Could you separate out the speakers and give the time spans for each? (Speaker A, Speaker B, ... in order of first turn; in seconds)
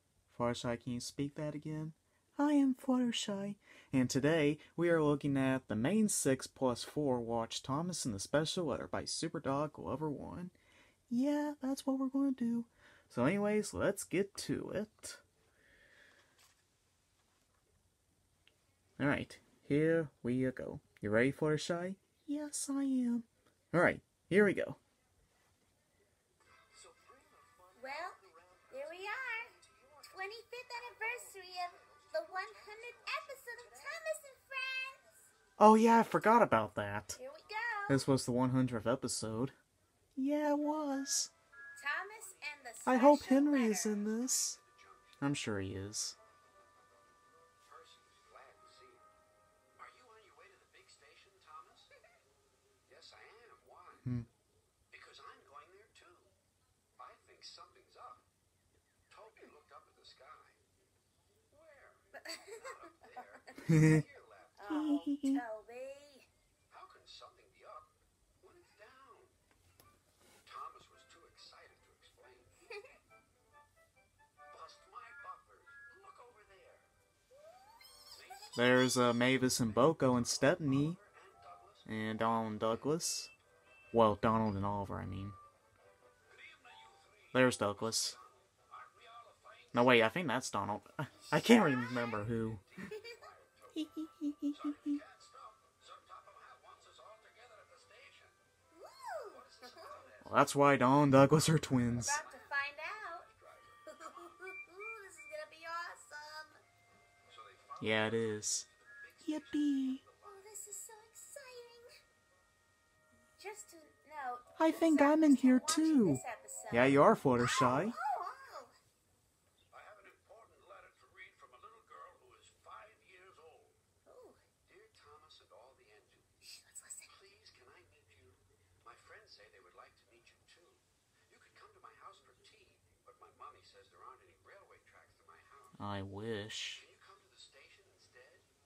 Speaker A: 0.3-10.5, 11.1-15.2, 19.0-24.8, 35.6-37.2, 37.9-39.5, 40.1-41.3, 42.9-44.6, 45.2-46.1, 63.7-64.0, 64.7-65.4, 78.5-81.0, 81.8-83.3, 83.9-85.4, 87.3-88.2, 89.7-92.6, 93.7-95.0, 100.2-102.2, 107.8-108.6, 109.2-110.0, 114.6-117.9, 135.8-136.8
Speaker B: 26.7-34.1, 42.2-45.3, 47.6-49.1, 49.7-51.9, 52.9-54.1, 54.9-56.3, 57.0-58.3, 59.1-60.6, 61.5-64.7, 66.7-69.3, 70.4-72.6, 74.5-76.9, 78.1-82.8, 86.3-90.0, 91.3-93.9, 94.5-98.4, 99.3-100.6, 101.9-104.3, 107.3-110.5, 119.7-123.8, 124.6-126.4, 127.0-135.8, 136.8-138.5
Speaker C: 27.8-35.3, 37.1-38.1, 41.8-44.0, 62.1-63.6, 64.6-66.3, 72.7-72.9, 91.1-92.2, 92.8-93.3, 98.7-100.1, 102.0-103.3, 103.8-106.6, 110.2-111.9, 113.4-118.7, 124.0-124.4, 126.4-127.1